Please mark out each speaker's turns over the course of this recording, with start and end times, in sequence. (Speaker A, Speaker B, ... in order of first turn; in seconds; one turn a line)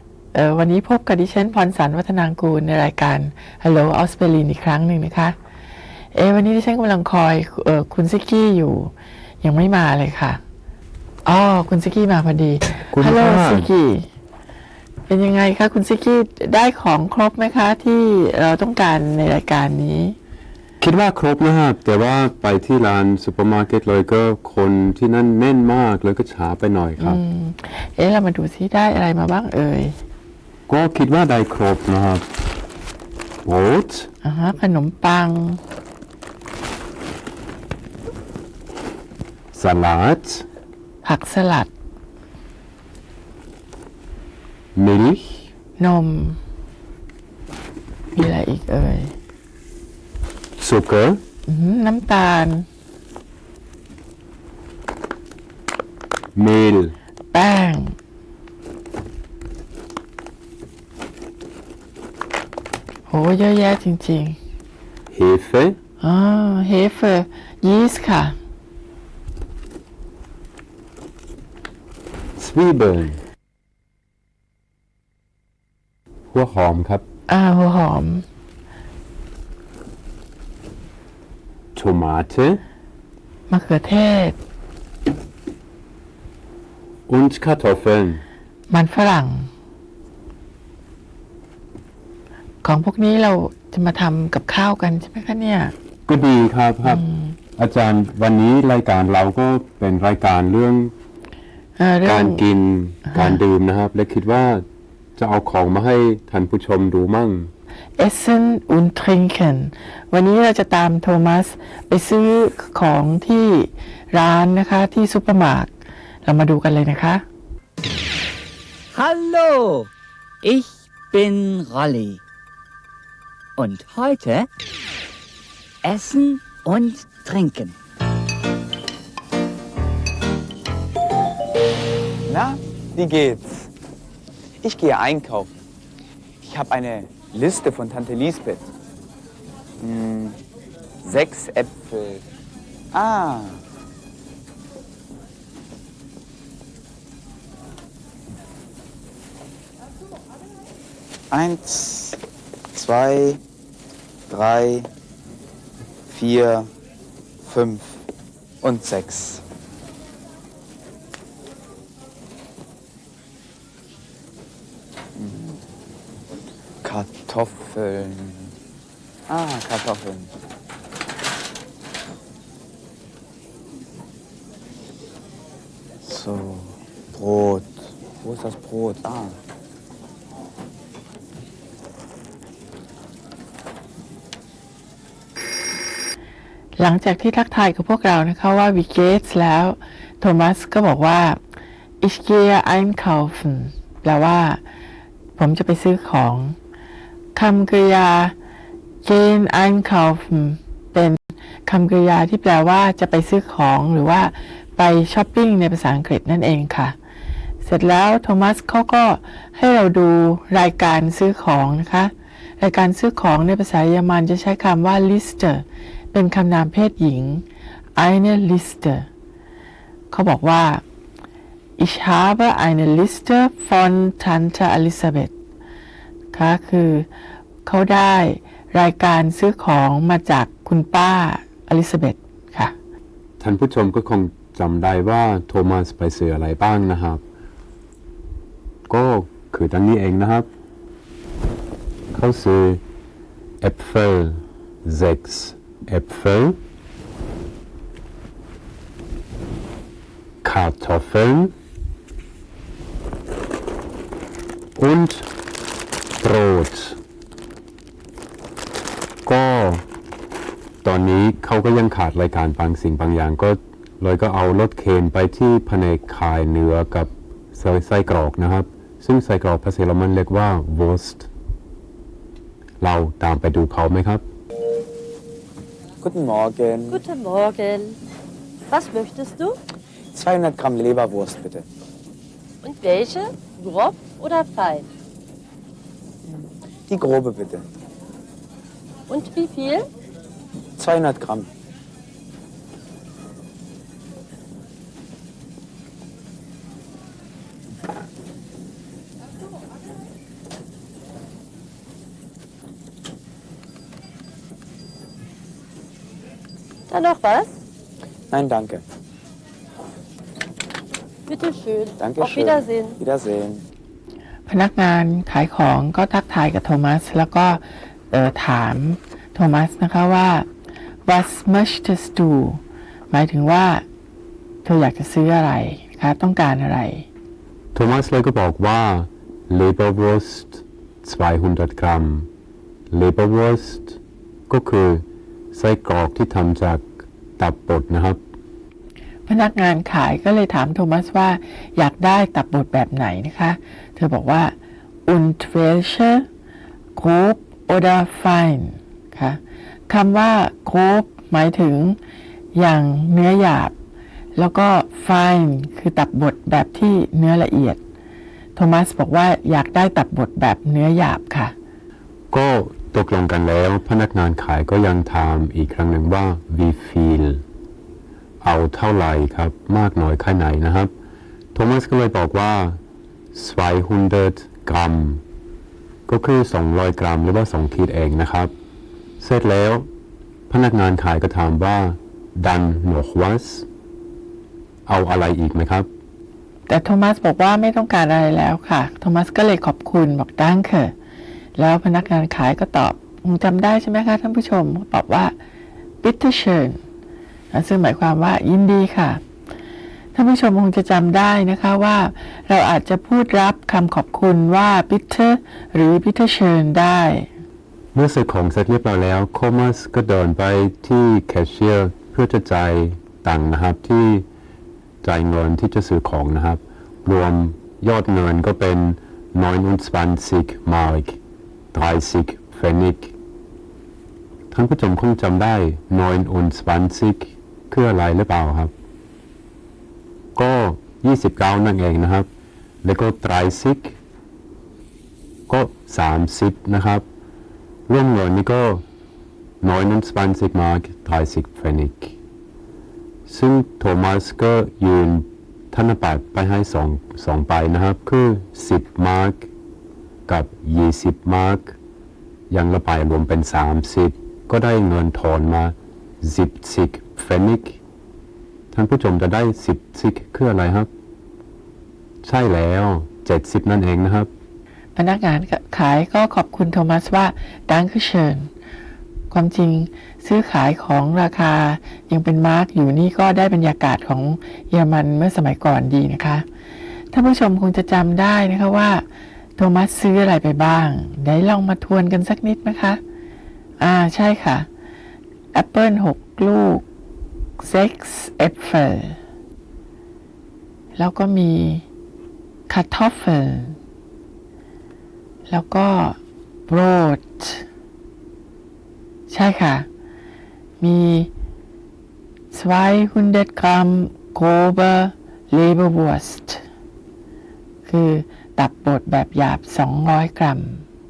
Speaker A: 0.3-5.4
Speaker A: 6.1-10.4
Speaker A: 11.2-14.1
Speaker B: 12.9-13.7
Speaker A: 15.1-20.2
Speaker B: 20.8-27.2
Speaker A: 27.0-30.0
Speaker B: 30.7-32.3
Speaker B: 33.5-34.1
Speaker A: 34.2-35.6
Speaker B: 39.5-40.5
Speaker A: 41.0-41.7
Speaker B: 44.8-45.5
Speaker A: 45.8-46.4
Speaker A: 48.2-49.1
Speaker B: 50.6-51.2
Speaker A: 51.5-52.7
Speaker B: 56.4-57.0
Speaker A: 57.3-58.0
Speaker A: 63.1-64.4
Speaker B: 65.1-65.8
Speaker A: 66.0-68.4
Speaker B: 72.4-73.2
Speaker B: 76.3-77.0
Speaker A: 77.3-78.2
Speaker B: 81.8-82.6
Speaker A: 83.5-84.4
Speaker B: 87.1-88.2
Speaker A: 88.7-89.5
Speaker A: 92.6-95.7
Speaker B: 96.1-97.0
Speaker A: 96.9-97.3
Speaker B: 97.6-100.9
Speaker A: 101.8-102.4
Speaker B: 102.0-104.7
Speaker A: 103.1-103.4
Speaker B: 105.2-107.5
Speaker A: 108.0-115.7
Speaker A: 116.3-117.2
Speaker C: 118.9-119.9
Speaker C: 120.4-122.2
Speaker C: 123.6-124.5
Speaker C: 125.8-127.8
Speaker D: 132.3-133.7
Speaker D: 134.6-135.5
Speaker D: 136.4-138.7
Speaker D: 139.8-140.4
Speaker D: 141.0-142.2
Speaker D: 142.9-143.6
Speaker D: 151.3-152.2
Speaker D: 152.7-153.4
Speaker D: 154.3-154.9
Speaker D: 156.1-156.7
Speaker D: 157.4-158.0
Speaker D: 158.6-159.4
Speaker D: 165.2-165.6
Speaker D: 166.8-168.5
Speaker D: 169.3-170.3
Speaker D: 176.0-179.4
Speaker A: 186.8-191.4
Speaker A: 192.0-194.6
Speaker A: 195.4-196.6
Speaker A: 197.3-198.3
Speaker A: 199.0-207.0
Speaker A: 207.6-217.4
Speaker A: 218.0-219.1
Speaker A: 220.1-220.8
Speaker A: 221.8-225.3
Speaker A: 226.3-227.1
Speaker A: 227.7-232.8
Speaker B: 233.4-237.2
Speaker B: 238.9-240.5
Speaker B: 242.1-242.8
Speaker B: 243.6-246.6
Speaker B: 250.4-251.6
Speaker B: 254.8-255.3
Speaker B: 256.2-257.0
Speaker B: 259.2-259.9
Speaker B: 260.8-271.3
Speaker B: 272.8-274.2
Speaker D: 276.0-277.0
Speaker E: 276.9-278.0
Speaker E: 278.7-279.6
Speaker D: 280.1-281.6
Speaker E: 282.6-284.9
Speaker D: 286.3-287.7
Speaker E: 289.1-289.9
Speaker D: 290.8-291.5
Speaker E: 306.9-307.5
Speaker D: 308.3-308.8
Speaker E: 311.3-313.0
Speaker D: 312.0-313.6
Speaker A: 314.5-320.5
Speaker A: 321.1-323.8
Speaker A: 324.6-327.1
Speaker B: 327.7-332.3
Speaker B: 332.9-334.0
Speaker B: 334.5-336.9
Speaker B: 337.4-338.2
Speaker A: 339.3-344.5
Speaker A: 345.1-346.3
Speaker A: 347.0-352.0
Speaker A: 352.6-353.7
Speaker A: 354.4-357.8
Speaker A: 358.6-361.5
Speaker B: 362.3-367.4
Speaker B: 368.4-370.9
Speaker B: 371.5-372.8
Speaker B: 373.3-375.2
Speaker B: 376.1-378.5
Speaker B: 379.2-379.9
Speaker B: 380.5-383.7
Speaker B: 384.9-385.9
Speaker A: 386.7-390.9
Speaker A: 391.6-395.4
Speaker A: 396.0-396.8
Speaker A: 397.5-399.2
Speaker A: 400.1-407.3
Speaker B: 407.9-414.3
Speaker B: 415.0-421.2
Speaker B: 421.7-423.1
Speaker B: 424.5-428.7
Speaker B: 430.4-432.3
Speaker B: 432.8-434.0
Speaker B: 435.5-437.1
Speaker B: 437.9-438.8
Speaker B: 439.6-442.2
Speaker B: 443.3-449.5
Speaker B: 450.3-451.8
Speaker B: 452.5-457.8
Speaker B: 458.7-460.9
Speaker B: 462.2-464.3
Speaker A: 465.0-468.5
Speaker A: 469.3-476.4
Speaker A: 477.1-479.0
Speaker A: 479.6-483.0
Speaker A: 483.8-484.7
Speaker A: 485.5-486.9
Speaker A: 487.6-489.2
Speaker A: 491.0-491.9
Speaker A: 492.7-493.8
Speaker A: 495.5-496.2
Speaker A: 496.7-497.6
Speaker A: 499.3-499.9
Speaker A: 500.8-501.3
Speaker A: 502.5-506.6
Speaker A: 507.9-510.8